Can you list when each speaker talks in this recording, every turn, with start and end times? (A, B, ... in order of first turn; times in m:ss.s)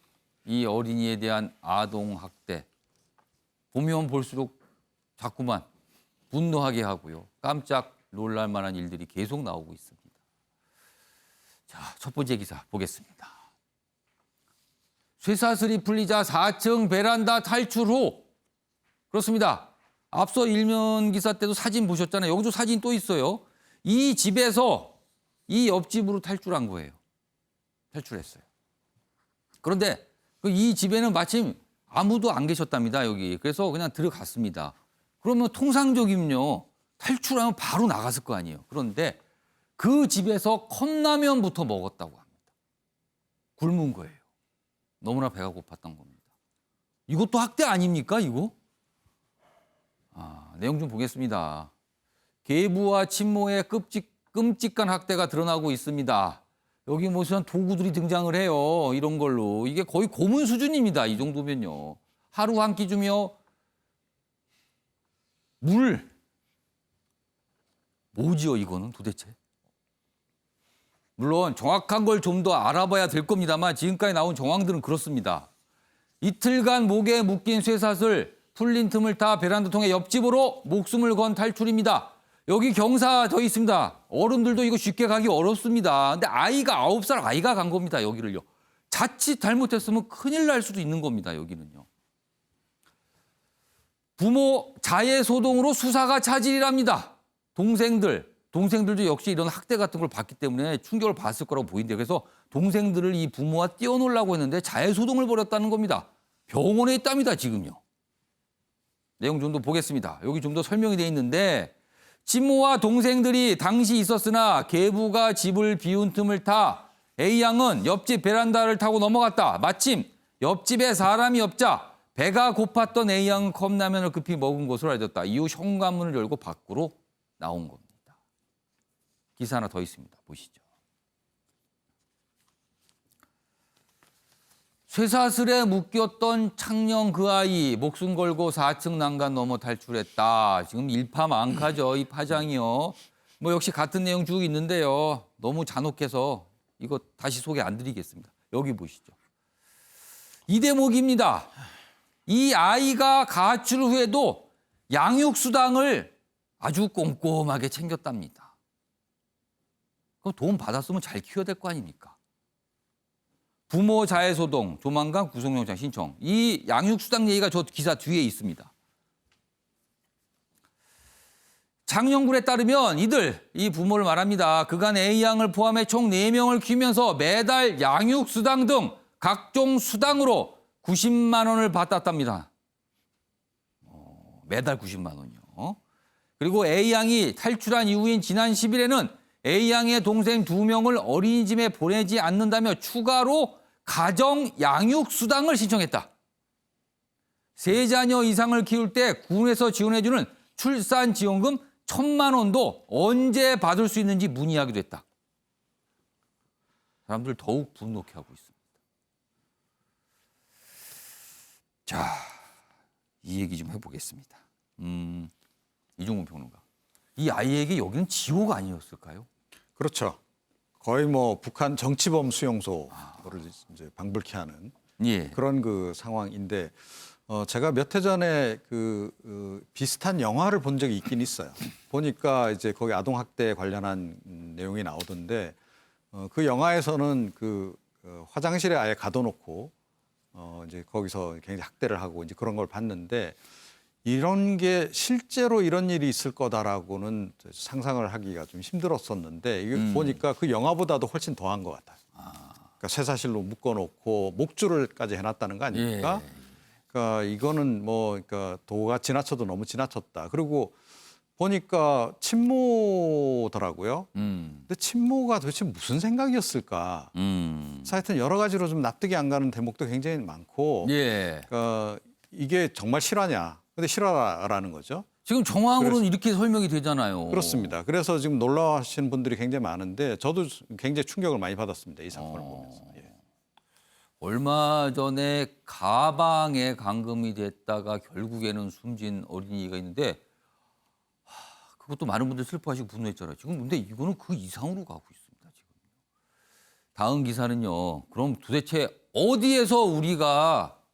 0:00.5-0:02.7 A
0:03.7-0:04.6 A
0:05.2-0:05.6 A
0:06.3-0:10.0 A
0:11.7-0:13.3 A
0:15.2-0:18.3 A
0:19.1-0:25.0 A
0:25.5-0:27.0 A
0:27.9-0:28.4 A
0:29.6-0:39.2 A
0:39.8-0:42.3 A
0:43.6-0:44.2 A
0:45.0-0:46.2 A
0:47.1-0:48.5 A
0:50.1-0:51.7 A
0:52.4-1:03.3 A
1:05.6-1:06.1 A
1:08.1-1:09.4 A
1:11.2-1:15.5 A
1:16.2-1:31.9 A
1:34.2-1:47.8 A
1:49.2-1:51.7 A
1:52.2-2:07.9 A
2:09.4-2:10.6 A
2:14.9-2:29.1 A
2:30.5-2:31.5 A
2:32.3-2:38.5 A
2:40.2-2:42.2 A
2:43.7-2:48.7 A
2:51.9-3:02.5 A
3:03.9-3:05.8 A
3:06.4-3:16.1 A
3:17.6-3:25.0 A
3:27.1-3:28.5 A
3:31.9-3:32.4 A
3:33.2-3:35.3 A
3:36.0-3:36.6 A
3:37.2-3:39.3 A
3:39.8-3:40.2 B
3:40.8-3:44.7 B
3:45.0-3:45.4 A
3:45.3-3:55.6 B
3:56.1-3:59.7 B
4:00.4-4:03.4 B
4:04.0-4:12.0 B
4:09.8-4:10.2 A
4:12.2-4:12.6 A
4:12.8-4:16.3 B
4:15.7-4:16.4 A
4:16.9-4:20.8 B
4:21.4-4:24.1 B
4:24.2-4:24.6 A
4:24.7-4:27.1 B
4:27.2-4:28.0 A
4:27.8-4:31.0 B
4:30.8-4:31.5 A
4:31.5-4:35.1 B
4:35.2-4:37.7 A
4:35.8-4:36.0 B
4:37.3-4:43.0 B
4:42.1-4:43.1 A
4:44.2-4:50.2 A
4:51.3-4:55.5 A
4:57.0-5:00.8 A